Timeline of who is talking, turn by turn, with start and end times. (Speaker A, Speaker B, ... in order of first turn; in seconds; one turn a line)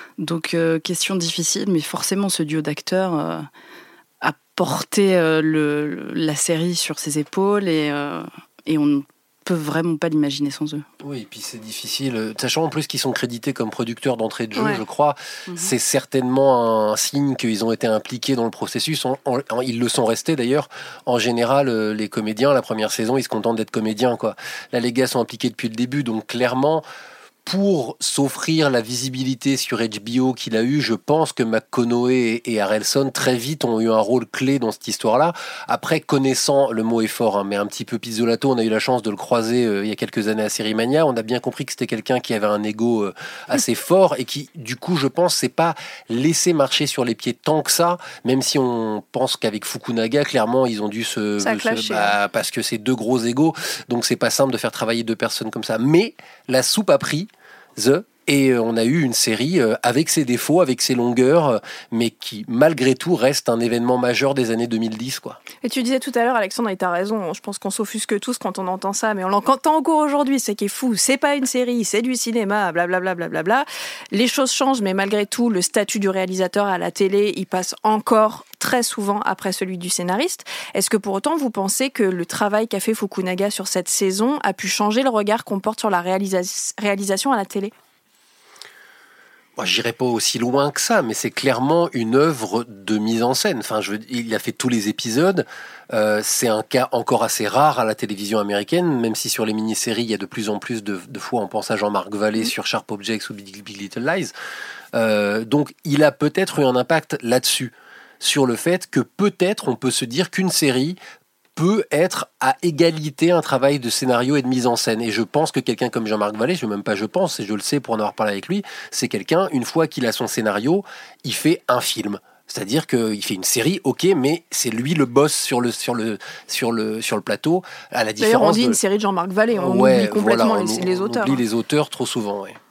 Speaker A: 0.2-3.5
Speaker A: 4.2-10.8
Speaker B: 11.0-26.9
Speaker B: 27.4-65.4
Speaker C: 51.4-52.1
Speaker C: 65.6-87.7
Speaker B: 89.6-104.3
Speaker B: 104.9-111.0
Speaker B: 111.6-128.8
Speaker C: 128.2-131.4
Speaker B: 129.6-132.6